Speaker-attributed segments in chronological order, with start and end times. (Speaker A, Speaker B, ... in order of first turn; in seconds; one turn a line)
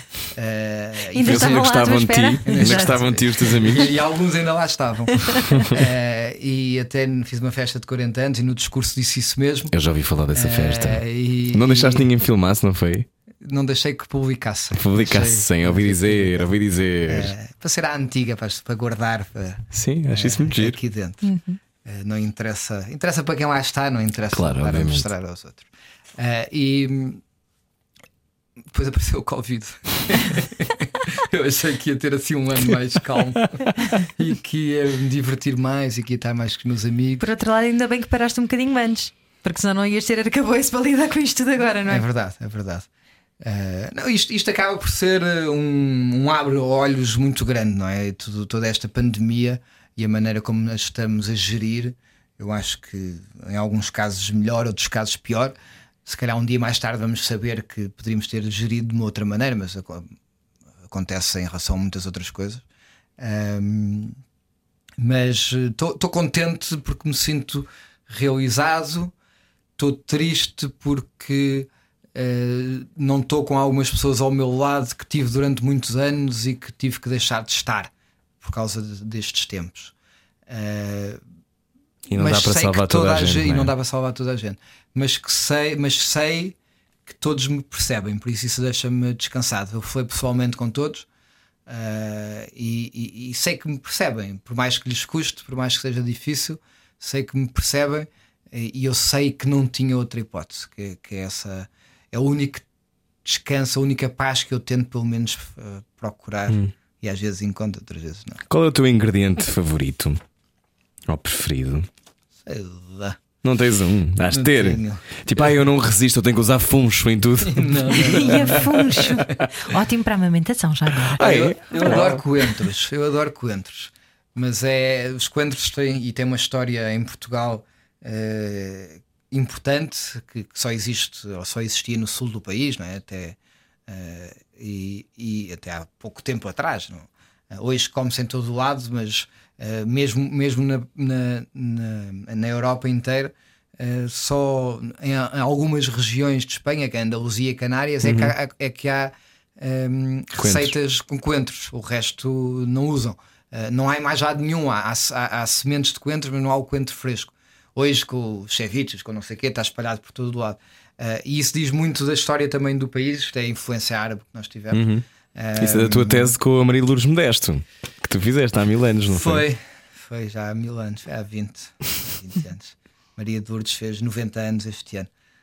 Speaker A: 0.3-1.6
Speaker B: 1.1-3.8
Speaker C: 1.2-3.9
Speaker A: 2.5-9.7
Speaker C: 9.7-13.1
Speaker A: 10.3-12.1
Speaker A: 13.4-16.5
Speaker C: 14.7-17.3
Speaker A: 17.1-21.2
Speaker C: 19.7-20.8
Speaker B: 21.2-21.6
Speaker A: 21.8-27.2
Speaker C: 24.3-25.1
Speaker A: 28.7-37.2
Speaker B: 37.2-42.0
Speaker A: 41.9-42.9
Speaker A: 43.4-60.1
Speaker A: 60.9-62.6
Speaker A: 63.2-64.2
Speaker A: 65.0-69.1
Speaker A: 69.8-79.9
Speaker A: 80.5-81.2
Speaker C: 82.1-83.7
Speaker A: 82.2-86.5
Speaker A: 87.1-91.1
Speaker A: 91.7-102.6
Speaker A: 103.2-108.4
Speaker C: 108.5-110.2
Speaker C: 111.1-111.9
Speaker A: 112.4-113.2
Speaker C: 113.4-119.0
Speaker A: 114.3-115.0
Speaker A: 117.4-119.1
Speaker B: 118.0-121.2
Speaker C: 121.0-122.2
Speaker A: 121.2-133.4
Speaker A: 133.9-166.3
Speaker C: 148.0-148.3
Speaker C: 150.4-150.7
Speaker C: 164.7-165.0
Speaker C: 165.6-169.4
Speaker A: 169.1-175.1